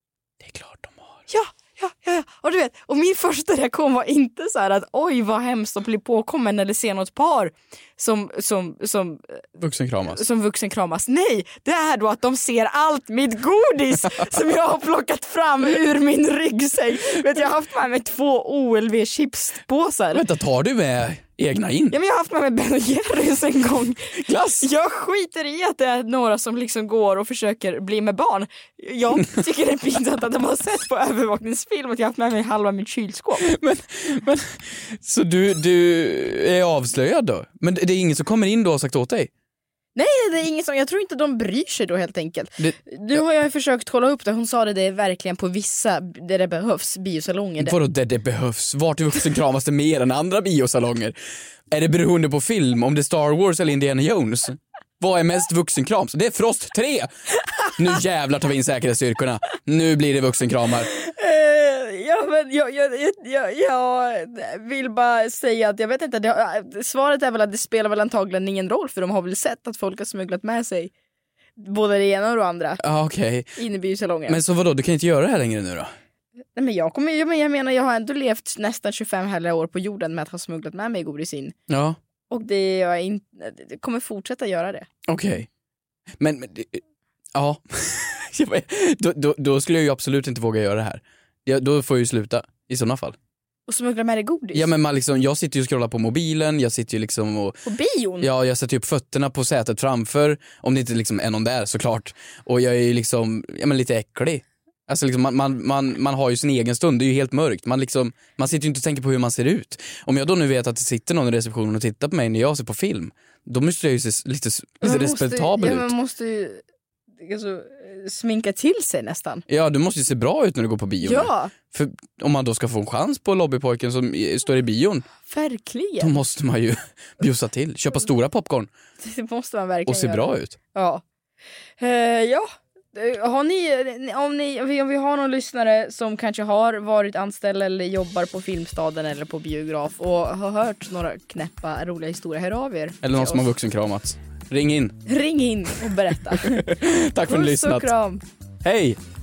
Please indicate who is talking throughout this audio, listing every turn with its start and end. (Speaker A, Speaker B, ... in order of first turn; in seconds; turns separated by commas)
Speaker A: 0.4-1.2, Speaker B: 1.3-9.5, Speaker A: 9.6-10.2, Speaker B: 10.1-20.2, Speaker A: 20.1-21.9, Speaker B: 21.9-33.5, Speaker A: 24.2-24.7, Speaker A: 33.4-39.3, Speaker B: 39.9-47.7, Speaker A: 47.6-51.1, Speaker A: 51.7-57.1, Speaker A: 57.7-60.9, Speaker B: 60.9-70.9, Speaker B: 71.6-72.8, Speaker A: 72.8-73.6, Speaker B: 73.6-74.4, Speaker A: 74.3-75.9, Speaker B: 76.5-81.5, Speaker A: 81.7-82.0, Speaker B: 82.3-84.9, Speaker A: 85.1-85.5, Speaker A: 86.2-86.8, Speaker A: 87.3-93.2, Speaker B: 93.7-94.7, Speaker A: 94.5-97.6, Speaker B: 97.6-98.3, Speaker A: 98.2-115.9, Speaker B: 114.8-116.6, Speaker B: 117.2-119.4, Speaker A: 119.5-125.1, Speaker B: 121.0-121.5, Speaker B: 125.2-126.2, Speaker A: 126.0-128.7, Speaker B: 129.0-131.0, Speaker A: 129.9-130.6, Speaker B: 131.8-143.5, Speaker A: 143.0-145.0, Speaker B: 145.1-148.2, Speaker A: 146.3-147.9, Speaker A: 148.6-149.0